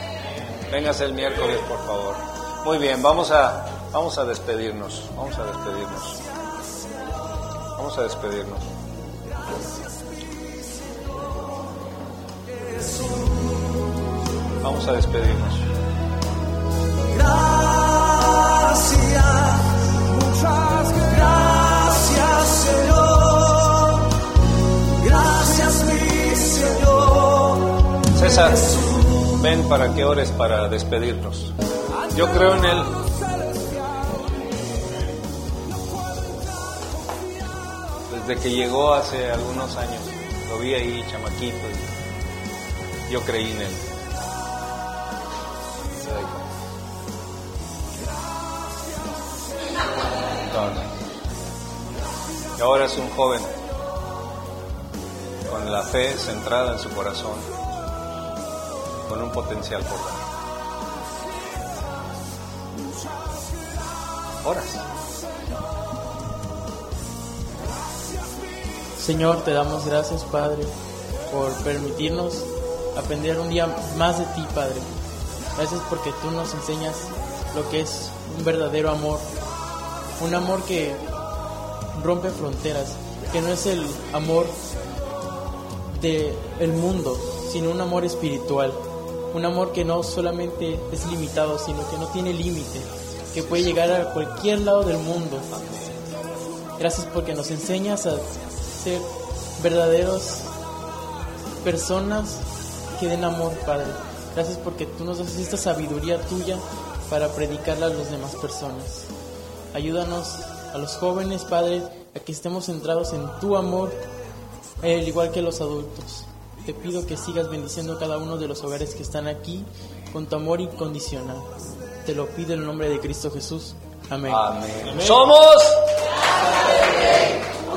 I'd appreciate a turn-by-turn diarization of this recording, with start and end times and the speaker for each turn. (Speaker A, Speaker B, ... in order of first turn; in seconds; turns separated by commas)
Speaker A: 0.7-6.2, Speaker A: 7.7-8.7, Speaker B: 12.7-13.7, Speaker A: 14.6-15.7, Speaker B: 17.1-24.1, Speaker B: 24.9-27.8, Speaker A: 28.1-31.5, Speaker A: 32.1-33.0, Speaker B: 32.9-34.1, Speaker A: 38.1-41.9, Speaker A: 43.1-43.9, Speaker A: 46.0-46.4, Speaker A: 50.4-50.9, Speaker A: 52.5-53.5, Speaker A: 55.5-57.5, Speaker A: 59.1-60.3, Speaker A: 64.4-64.9, Speaker C: 69.0-70.7, Speaker C: 71.3-75.0, Speaker C: 75.5-79.3, Speaker C: 80.2-81.0, Speaker C: 81.9-84.6, Speaker C: 85.9-95.8, Speaker C: 96.8-100.5, Speaker C: 101.6-109.1, Speaker C: 109.7-114.0, Speaker C: 114.8-124.5, Speaker A: 124.3-125.9